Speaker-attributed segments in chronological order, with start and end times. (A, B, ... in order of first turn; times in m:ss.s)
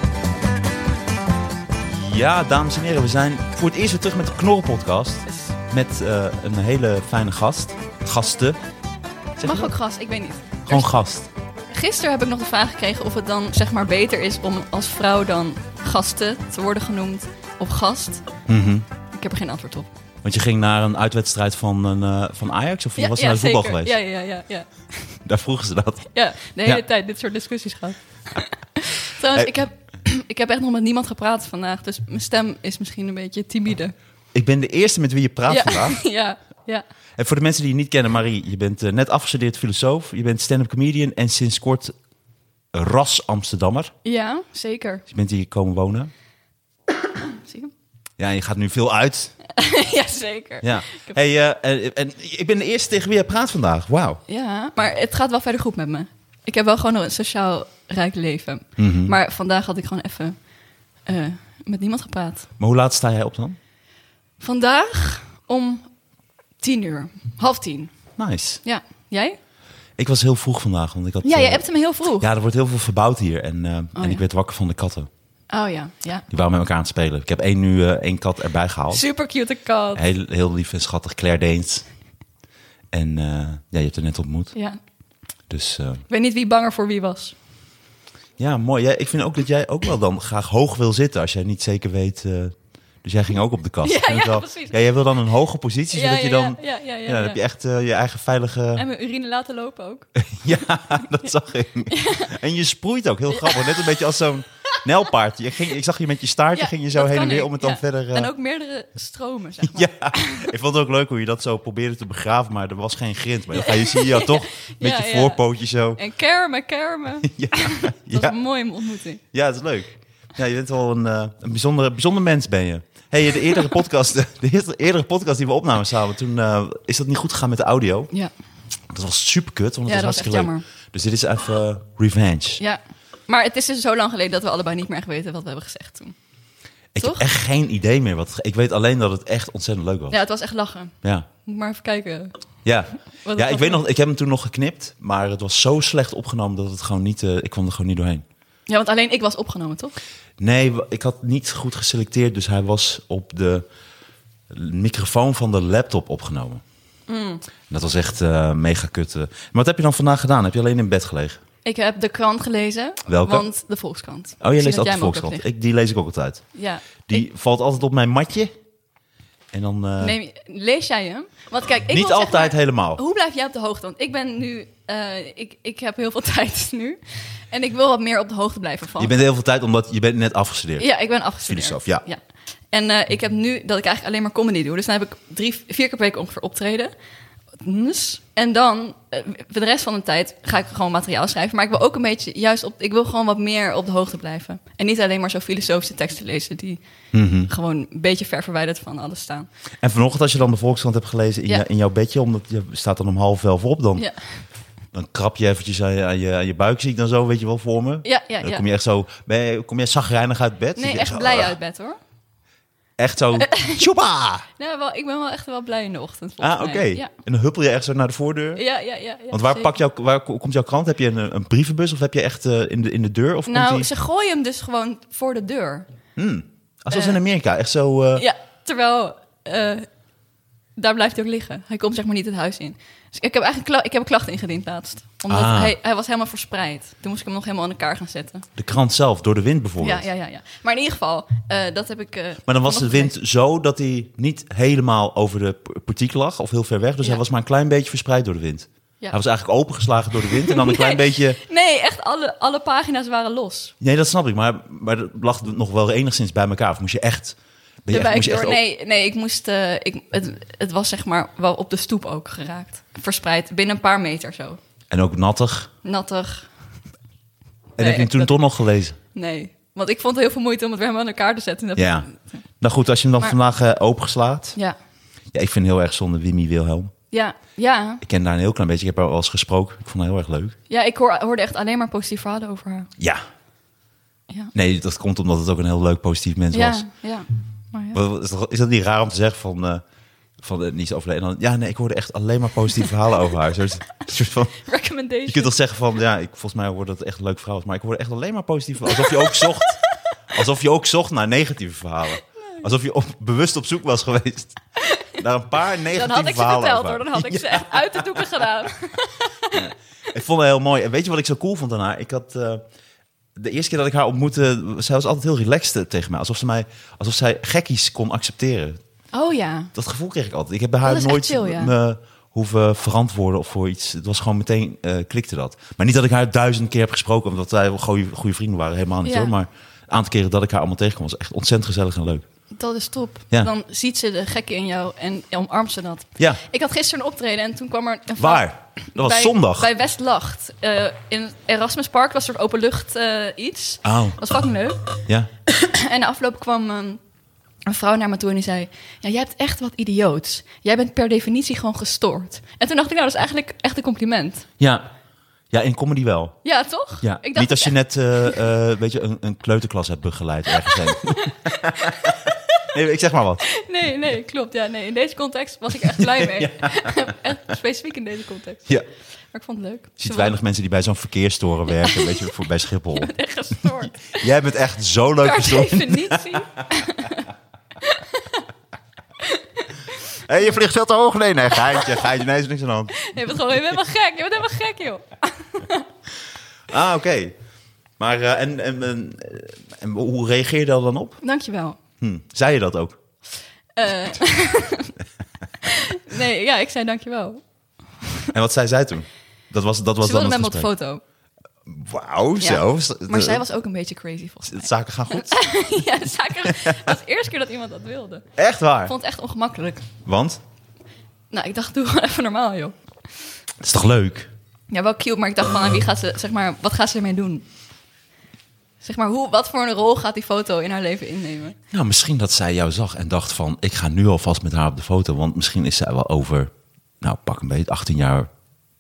0:01.8-0:08.6 A
0:05.3-0:05.5 B
0:09.4-0:09.7 A
0:09.4-0:11.0 B
0:10.7-0:11.3 A
0:11.7-0:18.2 B
0:18.5-0:18.9 A
0:19.1-0:19.9 B
0:20.2-0:24.0 A
0:23.0-0:25.2 B
0:25.2-0:26.1 A
0:26.1-0:33.9 B
0:34.3-0:36.0 A
0:35.5-0:36.8 B
0:37.2-0:42.0 A
0:42.7-0:43.9 A
0:44.0-0:45.0 B
0:45.1-0:46.1 A
0:47.4-0:47.7 B
0:48.2-0:49.4 A
0:49.5-0:51.2 B
0:50.6-0:54.2 A
0:54.3-1:00.4 B
0:58.8-0:59.1 A
1:01.1-1:02.5 B
1:02.6-1:03.6 A
1:04.4-1:05.9 B
1:06.6-1:07.9 B
1:08.2-1:08.6 A
1:08.6-1:09.4 B
1:10.0-1:11.6 A
1:11.2-1:12.3 B
1:12.2-1:15.1 A
1:14.0-1:14.2 B
1:15.5-1:16.2 B
1:16.3-1:19.0 A
1:18.9-1:20.0 B
1:20.0-1:21.8 A
1:22.9-1:24.5 A
1:24.5-1:24.8 B
1:25.5-1:26.0 A
1:26.1-1:27.4 B
1:28.4-1:38.8 A
1:33.8-1:34.8 B
1:35.9-1:37.4 B
1:38.8-1:40.1 B
1:40.2-1:48.3 A
1:41.9-1:42.3 B
1:43.3-1:44.0 B
1:46.5-1:50.5 B
1:49.6-1:56.0 A
1:53.6-1:55.4 B
1:56.0-1:59.2 B
1:57.2-1:58.4 A
1:59.3-2:08.1 A
2:08.9-2:12.6 A
2:09.9-2:10.6 B
2:12.6-2:16.2 B
2:16.9-2:20.2 A
2:17.0-2:17.2 B
2:20.1-2:22.4 B
2:22.6-2:28.2 A
2:23.2-2:23.8 B
2:28.7-2:29.9 B
2:30.4-2:33.7 A
2:34.5-2:36.6 A
2:37.1-2:37.4 B
2:37.7-2:41.4 A
2:41.6-2:45.4 B
2:43.1-2:43.5 A
2:44.4-2:46.4 A
2:46.5-2:47.1 B
2:47.1-2:48.5 A
2:49.5-2:50.2 A
2:50.0-2:57.0 B
2:51.9-2:53.0 A
2:57.5-2:59.1 B
2:59.0-3:00.9 A
3:00.8-3:02.2 B
3:01.4-3:02.0 A
3:02.7-3:06.9 B
3:07.6-3:16.8 B
3:17.1-3:17.5 A
3:17.4-3:19.5 B
3:19.8-3:24.1 A
3:24.9-3:31.6 A
3:28.0-3:28.6 B
3:30.8-3:32.0 B
3:33.0-3:34.5 A
3:33.4-3:33.8 B
3:34.6-3:37.1 B
3:36.4-3:38.6 A
3:38.6-3:39.7 B
3:39.3-3:43.9 A
3:43.5-3:45.9 B
3:46.2-3:48.3 A
3:46.9-3:47.2 B
3:48.2-3:49.9 B
3:50.8-3:58.5 B
3:55.3-3:55.8 A
3:58.6-4:00.1 A
3:59.8-4:03.1 B
4:02.5-4:11.4 A
4:10.3-4:13.7 B
4:13.8-4:18.6 A
4:17.9-4:24.6 B
4:24.9-4:25.7 A
4:25.8-4:26.5 B
4:27.8-4:28.4 B
4:27.8-4:29.0 A
4:29.1-4:32.4 B
4:31.8-4:32.1 A
4:32.6-4:34.6 A
4:35.3-4:36.9 A
4:37.1-4:38.0 B
4:38.0-4:40.6 A
4:40.7-4:42.9 B
4:43.0-4:43.2 A
4:44.5-4:46.9 A
4:46.5-4:48.0 B
4:47.9-4:49.8 A
4:50.4-4:54.6 A
4:54.6-4:55.5 B
4:55.3-5:04.6 A
4:58.9-4:59.9 B
5:04.8-5:05.2 B
5:05.2-5:08.2 A
5:05.9-5:09.7 B
5:09.5-5:12.6 A
5:13.4-5:18.8 A
5:19.1-5:19.7 B
5:19.7-5:32.3 A
5:20.8-5:21.7 B
5:29.0-5:29.3 B
5:32.6-5:47.0 B
5:38.2-5:39.7 A
5:43.8-5:44.2 A
5:47.7-5:54.5 B
5:54.6-5:54.9 A
5:55.5-5:56.4 A
5:56.4-5:58.4 B
5:57.0-6:03.5 A
6:00.7-6:02.0 B
6:03.5-6:08.7 B
6:05.8-6:07.1 A
6:09.3-6:10.4 B
6:10.0-6:13.1 A
6:11.7-6:12.3 B
6:12.9-6:14.3 B
6:14.0-6:16.6 A
6:15.2-6:17.3 B
6:17.8-6:18.4 B
6:19.2-6:20.0 B
6:20.3-6:23.1 A
6:21.7-6:22.1 B
6:23.0-6:25.9 B
6:26.7-6:27.4 A
6:28.0-6:31.2 A
6:31.2-6:31.8 B
6:32.0-6:33.0 A
6:33.8-6:35.0 B
6:35.6-6:37.4 B
6:38.3-6:40.7 A
6:40.0-6:41.0 B
6:41.7-6:43.4 A
6:42.4-6:48.3 B
6:44.5-6:45.4 A
6:46.4-6:46.8 A
6:48.4-6:48.9 A
6:48.9-6:49.9 B
6:50.0-6:50.4 A
6:51.3-6:52.8 B
6:53.6-6:54.3 A
6:54.7-6:57.4 B
6:58.8-7:01.6 B
7:01.7-7:08.3 A